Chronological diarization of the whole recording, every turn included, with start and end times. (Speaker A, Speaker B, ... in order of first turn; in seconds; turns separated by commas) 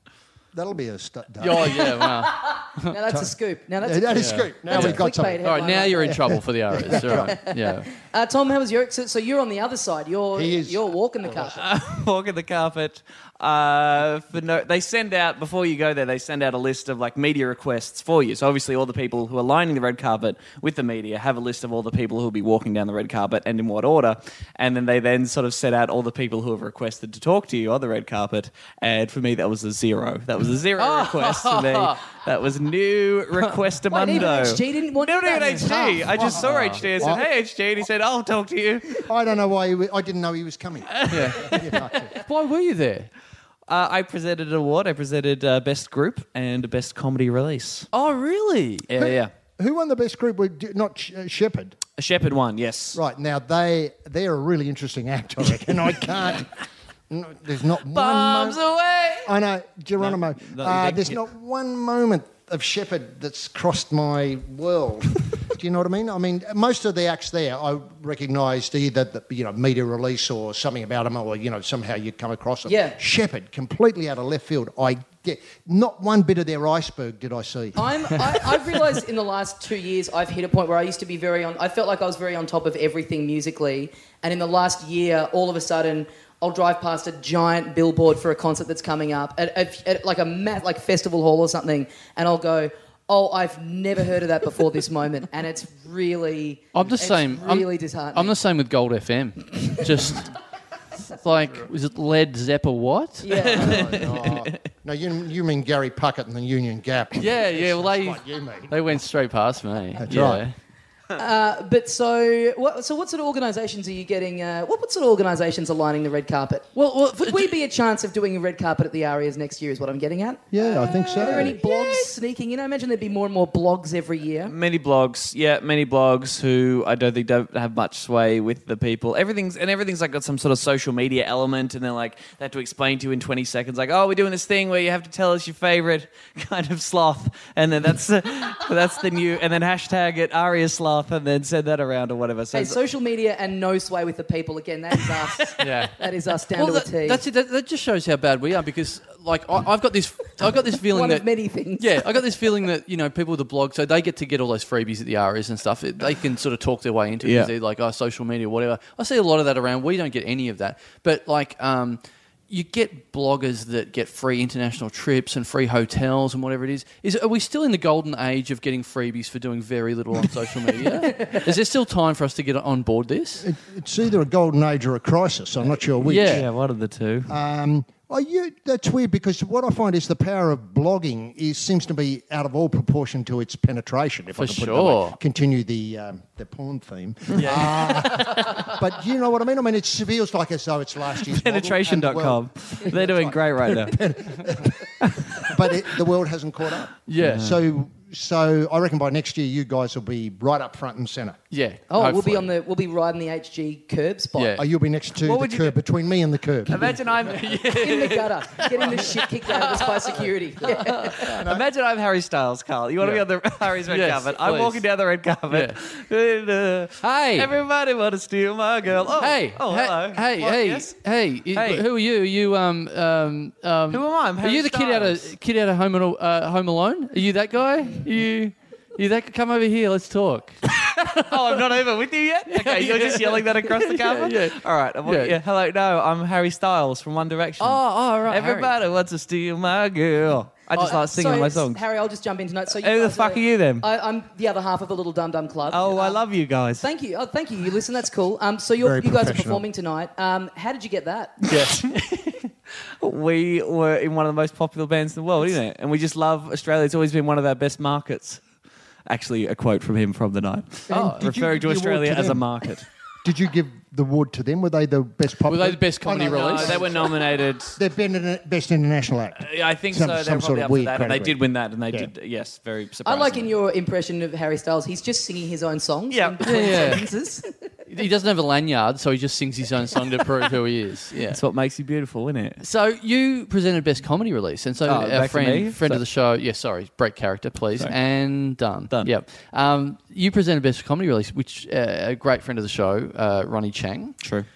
Speaker A: 0.5-2.0, Speaker B: 1.4-2.9, Speaker C: 2.0-6.3, Speaker A: 3.8-7.3, Speaker B: 4.1-7.9, Speaker C: 6.9-11.6, Speaker A: 10.3-11.5, Speaker D: 11.4-39.0, Speaker B: 30.8-32.0, Speaker C: 33.9-36.2, Speaker A: 36.1-37.2, Speaker B: 36.4-36.8, Speaker A: 39.0-42.1, Speaker B: 41.0-43.1, Speaker D: 43.7-47.9, Speaker B: 47.9-48.9, Speaker D: 48.9-49.3, Speaker A: 49.0-51.8, Speaker D: 52.0-53.0, Speaker A: 52.9-56.5, Speaker A: 57.1-58.6, Speaker D: 57.9-59.3, Speaker A: 59.2-78.3, Speaker D: 60.0-61.2, Speaker C: 72.7-73.0, Speaker C: 77.8-98.3, Speaker B: 96.7-100.3, Speaker B: 101.1-104.0, Speaker C: 103.2-104.0, Speaker A: 103.5-108.7, Speaker D: 103.5-104.6, Speaker B: 107.2-110.5, Speaker A: 110.0-110.4, Speaker C: 111.1-124.5, Speaker B: 116.7-117.5, Speaker A: 120.5-121.6, Speaker D: 120.8-122.0, Speaker D: 124.5-142.8, Speaker C: 142.5-147.2, Speaker B: 145.6-151.2, Speaker C: 150.9-152.0, Speaker B: 151.8-173.4, Speaker D: 157.2-157.5, Speaker A: 173.4-176.5, Speaker B: 176.0-176.4, Speaker D: 176.2-177.3, Speaker A: 177.3-201.4, Speaker B: 184.4-185.2, Speaker D: 187.3-187.7, Speaker B: 187.4-188.7, Speaker D: 191.3-194.0, Speaker D: 195.0-195.7, Speaker B: 197.1-197.5, Speaker D: 197.2-197.6, Speaker B: 201.5-202.5, Speaker C: 201.9-204.6, Speaker B: 204.3-204.6, Speaker A: 204.6-207.3, Speaker D: 205.2-205.8, Speaker D: 206.7-208.2, Speaker B: 207.2-211.2, Speaker C: 207.7-211.3, Speaker A: 211.2-211.6, Speaker D: 211.2-220.9, Speaker B: 213.0-214.8, Speaker B: 215.5-215.8, Speaker B: 217.0-217.5, Speaker B: 219.2-231.3, Speaker D: 221.5-221.8, Speaker D: 223.9-225.3, Speaker D: 231.1-241.8, Speaker B: 232.5-235.3, Speaker B: 237.6-238.7, Speaker C: 240.8-246.2, Speaker D: 242.7-243.8, Speaker D: 245.7-246.9, Speaker C: 246.8-251.4, Speaker A: 248.8-249.6, Speaker D: 251.4-252.5, Speaker B: 251.5-251.9, Speaker D: 253.0-258.4, Speaker D: 259.1-262.9, Speaker A: 260.9-262.5, Speaker B: 260.9-261.2, Speaker A: 263.2-271.4, Speaker B: 265.5-267.0, Speaker D: 266.2-267.8, Speaker D: 269.4-273.5, Speaker C: 273.0-277.7, Speaker D: 276.1-277.0, Speaker B: 276.4-277.1, Speaker B: 277.9-281.4, Speaker D: 281.3-282.6, Speaker B: 282.6-294.1, Speaker D: 284.8-286.0, Speaker D: 294.2-294.5